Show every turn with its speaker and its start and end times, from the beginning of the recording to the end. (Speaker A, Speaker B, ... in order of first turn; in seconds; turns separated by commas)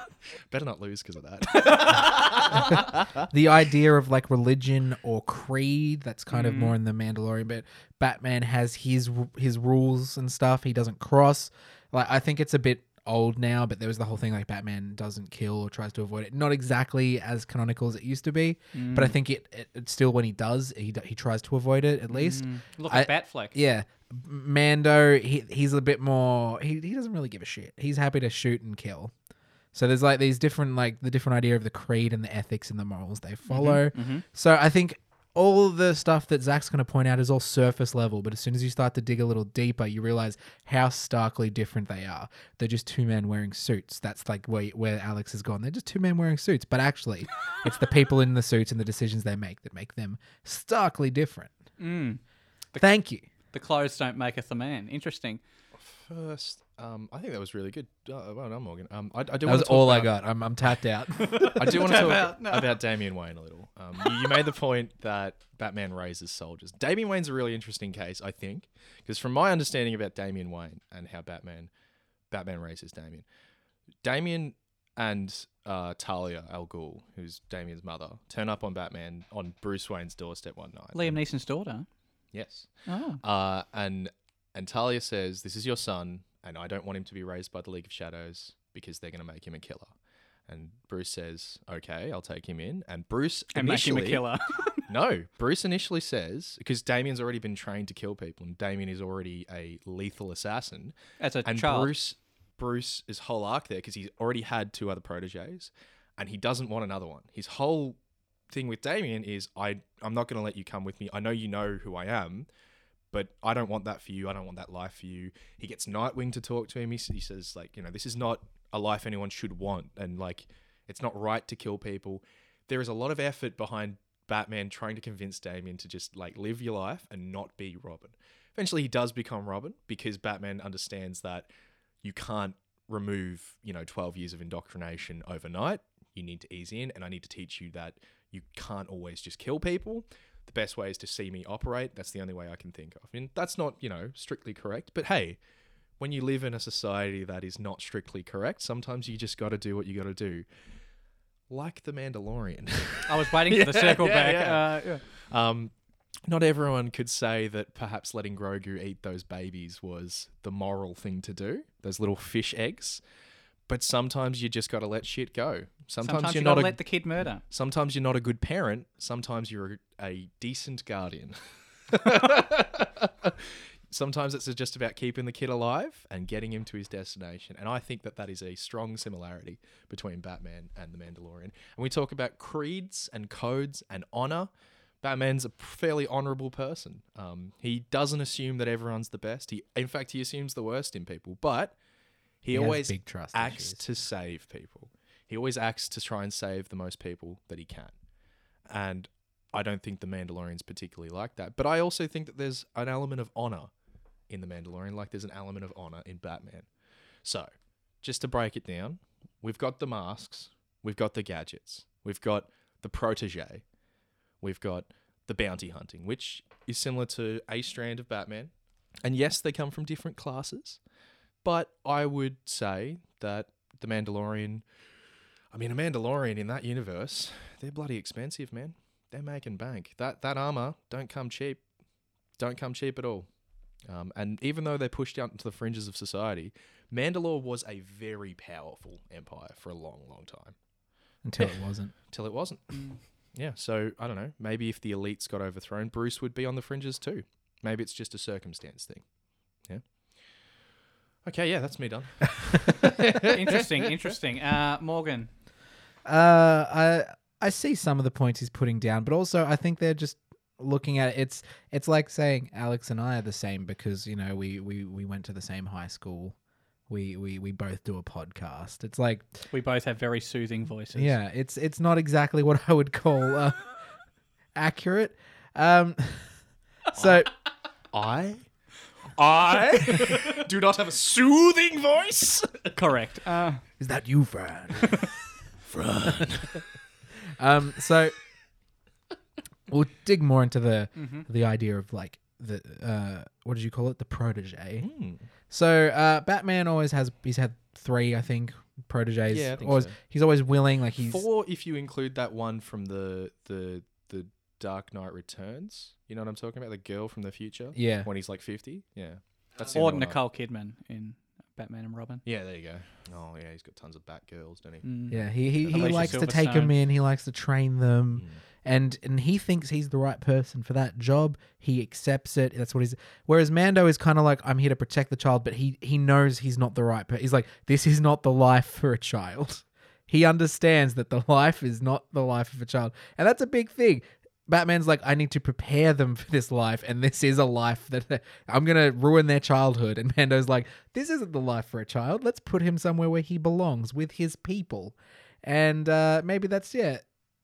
Speaker A: 0.5-3.3, Speaker B: 1.5-2.7, Speaker C: 2.5-29.1, Speaker B: 6.3-6.7, Speaker B: 18.7-19.1, Speaker B: 22.1-23.6, Speaker C: 29.7-51.5, Speaker B: 33.5-34.2, Speaker B: 51.8-52.2, Speaker C: 52.8-53.2, Speaker B: 53.5-55.4, Speaker A: 55.8-60.1, Speaker C: 59.4-62.0, Speaker B: 61.2-62.8, Speaker A: 61.5-71.7, Speaker A: 72.3-73.2, Speaker A: 74.0-81.2, Speaker B: 80.9-81.9, Speaker A: 82.3-82.7, Speaker B: 82.9-83.2, Speaker A: 83.2-89.9, Speaker A: 90.5-94.2, Speaker B: 93.5-94.8, Speaker A: 94.9-108.0, Speaker B: 101.2-101.9, Speaker A: 108.5-112.5, Speaker A: 113.1-131.5, Speaker A: 132.0-145.4, Speaker A: 146.0-150.4, Speaker A: 151.5-155.7, Speaker B: 153.1-155.0, Speaker A: 156.3-163.0, Speaker A: 163.7-166.8, Speaker B: 166.0-167.4, Speaker A: 167.5-171.4, Speaker A: 171.9-184.5, Speaker A: 185.0-191.8, Speaker A: 192.4-197.9, Speaker C: 192.5-193.8, Speaker A: 198.7-203.7, Speaker A: 204.3-206.7, Speaker A: 208.0-213.6, Speaker A: 214.4-218.5, Speaker A: 219.0-220.8, Speaker A: 221.4-224.6, Speaker A: 225.5-231.6, Speaker A: 232.4-233.3, Speaker A: 233.9-240.5, Speaker C: 241.2-241.9, Speaker A: 242.1-242.8, Speaker A: 243.3-249.0, Speaker A: 251.2-253.9, Speaker B: 253.2-255.3, Speaker C: 256.0-266.3, Speaker C: 266.9-269.4, Speaker B: 269.5-271.1, Speaker C: 270.9-273.6, Speaker C: 274.5-276.3, Speaker C: 276.9-277.3, Speaker A: 277.0-277.2, Speaker A: 277.9-278.4, Speaker A: 279.2-282.8, Speaker B: 279.9-280.2, Speaker B: 282.7-283.6, Speaker C: 283.8-285.1, Speaker A: 285.7-286.6, Speaker C: 286.0-286.3, Speaker C: 287.4-288.1, Speaker C: 289.7-294.9, Speaker B: 291.0-291.2, Speaker A: 294.8-295.2, Speaker C: 295.5-301.2, Speaker A: 299.3-299.9, Speaker A: 301.0-310.2, Speaker C: 307.7-308.1, Speaker B: 309.7-312.2, Speaker A: 312.2-314.9, Speaker B: 314.8-316.7, Speaker C: 315.1-347.0, Speaker A: 315.6-316.3